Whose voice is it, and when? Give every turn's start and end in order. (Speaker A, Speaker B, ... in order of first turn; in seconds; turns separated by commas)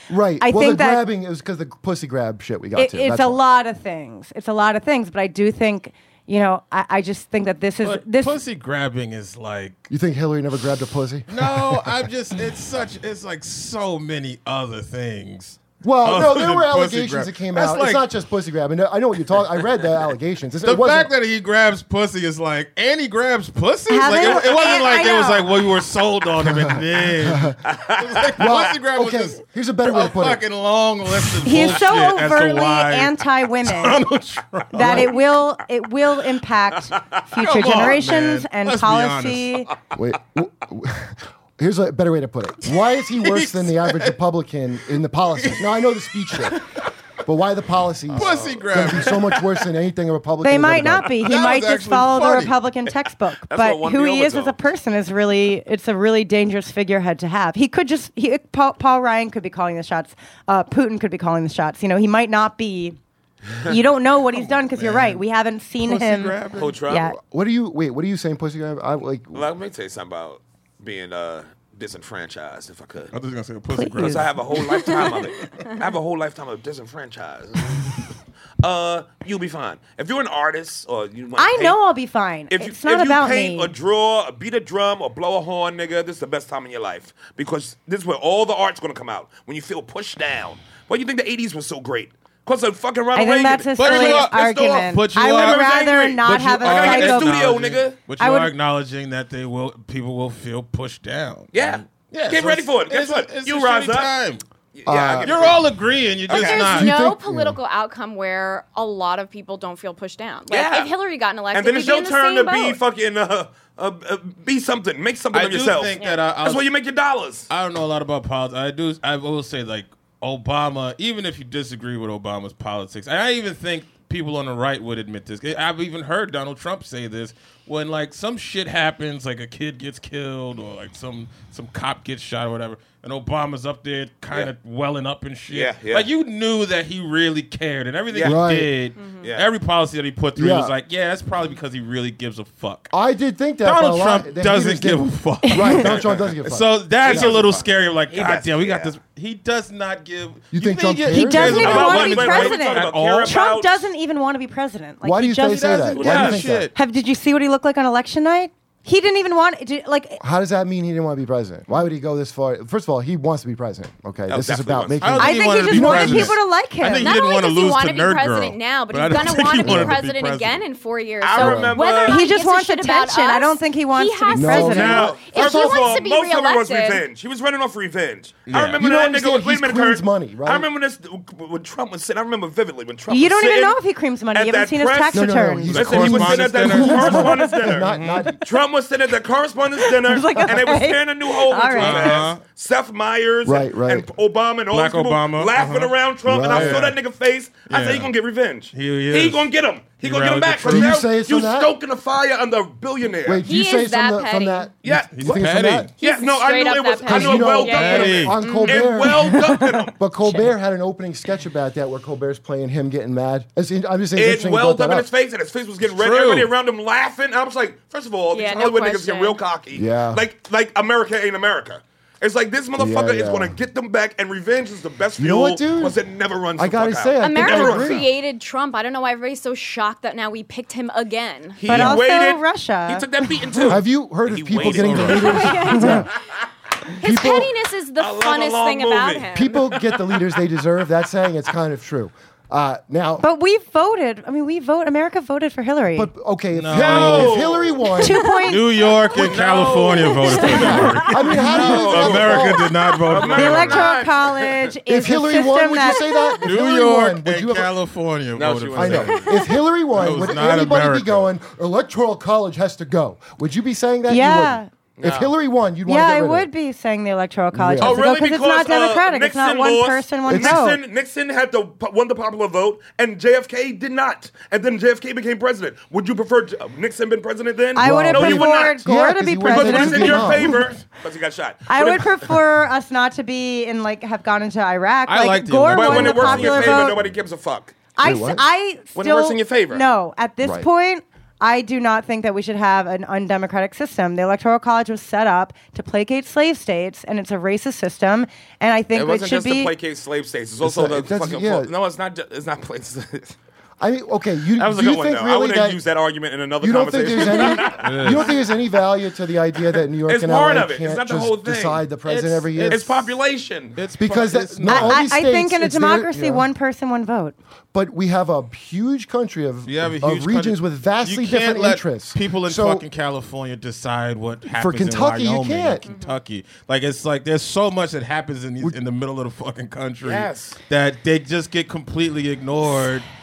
Speaker A: 0.1-3.4, Speaker B: 0.4-1.1, Speaker B: 2.8-8.4, Speaker C: 7.8-9.9, Speaker A: 9.9-11.9, Speaker C: 11.3-18.1, Speaker A: 15.8-21.1, Speaker C: 20.6-35.1, Speaker B: 23.9-25.5, Speaker A: 26.4-27.6, Speaker D: 27.7-28.6, Speaker A: 28.4-30.4, Speaker B: 31.4-34.0, Speaker B: 34.7-39.7, Speaker A: 34.8-35.1, Speaker C: 37.4-39.6, Speaker A: 40.0-46.6, Speaker C: 43.2-44.1, Speaker C: 46.4-46.8, Speaker A: 47.2-51.1, Speaker C: 48.1-49.5, Speaker D: 48.2-48.6, Speaker B: 50.4-63.0, Speaker C: 51.2-52.6, Speaker D: 53.5-54.6, Speaker B: 63.6-67.2, Speaker C: 64.5-65.2, Speaker C: 65.8-66.8, Speaker D: 66.5-67.1, Speaker A: 67.2-69.5, Speaker D: 69.3-73.1, Speaker C: 73.1-74.6, Speaker B: 73.7-74.3, Speaker D: 74.0-78.0, Speaker D: 78.6-81.8, Speaker B: 81.4-83.7, Speaker D: 82.5-98.0, Speaker B: 93.2-97.4, Speaker C: 93.8-104.4, Speaker B: 98.2-98.5, Speaker D: 101.5-104.1, Speaker D: 104.7-105.6, Speaker A: 104.9-105.4, Speaker C: 105.2-107.0, Speaker D: 106.3-106.7, Speaker E: 106.3-112.8, Speaker A: 106.7-107.6, Speaker D: 110.5-110.9, Speaker D: 111.5-117.5, Speaker C: 115.3-116.7, Speaker C: 117.5-142.9, Speaker D: 135.5-136.1, Speaker D: 138.1-138.4, Speaker A: 138.2-138.7, Speaker E: 139.0-139.2, Speaker A: 140.4-140.7, Speaker A: 142.9-147.4, Speaker C: 143.6-153.4, Speaker B: 145.4-145.8, Speaker D: 145.8-148.9, Speaker A: 150.5-151.8, Speaker B: 151.1-156.2, Speaker D: 151.6-153.8, Speaker A: 155.0-156.7, Speaker C: 155.5-156.7, Speaker D: 155.9-156.5, Speaker B: 156.7-160.2, Speaker A: 160.2-166.4, Speaker D: 164.3-165.3, Speaker C: 165.0-170.6, Speaker B: 165.2-167.1, Speaker E: 167.0-177.0, Speaker A: 169.6-170.0, Speaker D: 171.2-172.3, Speaker A: 171.4-171.8, Speaker B: 172.0-175.2, Speaker A: 174.3-175.8, Speaker D: 174.6-183.8, Speaker C: 178.5-178.8, Speaker A: 178.8-180.7, Speaker B: 183.1-185.8, Speaker D: 184.3-187.9, Speaker A: 185.1-188.4, Speaker C: 185.7-188.3, Speaker B: 187.0-187.5, Speaker D: 188.4-203.4, Speaker B: 189.8-192.3, Speaker C: 191.8-192.4, Speaker A: 193.4-194.1, Speaker C: 194.7-197.0, Speaker A: 196.3-196.9, Speaker C: 197.7-198.1, Speaker C: 198.7-199.5, Speaker C: 200.0-200.9, Speaker A: 200.6-201.7, Speaker A: 203.2-205.9, Speaker E: 203.5-204.7, Speaker D: 204.8-205.4, Speaker C: 205.1-205.9, Speaker E: 206.0-209.1, Speaker D: 206.0-210.0, Speaker A: 207.1-215.1, Speaker C: 207.7-208.4, Speaker D: 214.2-228.0, Speaker C: 215.8-216.5, Speaker E: 218.3-219.4, Speaker A: 219.7-220.2, Speaker A: 222.8-223.6, Speaker A: 225.2-226.0, Speaker A: 226.6-228.1, Speaker E: 227.2-231.6, Speaker D: 231.6-235.9, Speaker B: 231.7-233.7, Speaker A: 233.7-236.1, Speaker C: 234.6-235.3, Speaker E: 235.1-236.1, Speaker B: 235.8-236.0, Speaker E: 236.9-239.6, Speaker A: 237.0-237.5, Speaker D: 238.0-240.3, Speaker A: 239.3-243.2, Speaker B: 243.2-246.1, Speaker A: 245.9-248.2, Speaker C: 246.6-247.5, Speaker D: 246.7-247.8, Speaker B: 248.0-248.7, Speaker C: 248.4-253.9, Speaker D: 249.1-250.9, Speaker A: 250.3-252.7, Speaker D: 251.4-254.7, Speaker B: 253.3-256.3, Speaker A: 254.9-257.7, Speaker C: 256.4-259.3, Speaker D: 258.4-259.3, Speaker A: 258.8-266.5, Speaker C: 259.9-261.2, Speaker B: 264.1-264.7, Speaker D: 265.0-265.3, Speaker B: 265.9-270.8, Speaker A: 267.5-268.0, Speaker D: 267.8-278.8, Speaker A: 270.3-270.6, Speaker B: 277.8-280.6, Speaker A: 277.8-280.7, Speaker D: 279.5-282.3, Speaker B: 281.7-287.0, Speaker C: 285.1-287.0, Speaker D: 285.7-287.8, Speaker B: 288.0-299.7, Speaker A: 288.0-288.4, Speaker D: 289.0-289.8, Speaker A: 290.4-290.7, Speaker D: 298.9-303.4, Speaker A: 300.6-301.7, Speaker A: 303.8-305.8, Speaker D: 304.6-308.2, Speaker A: 306.6-312.8, Speaker C: 307.7-308.4, Speaker D: 310.1-311.9, Speaker C: 312.1-313.1, Speaker D: 312.7-313.8, Speaker C: 313.8-315.1, Speaker A: 314.0-316.5, Speaker B: 314.7-317.4, Speaker A: 317.7-322.9, Speaker C: 319.7-333.1, Speaker A: 324.5-325.8, Speaker E: 325.8-326.2, Speaker D: 330.0-330.6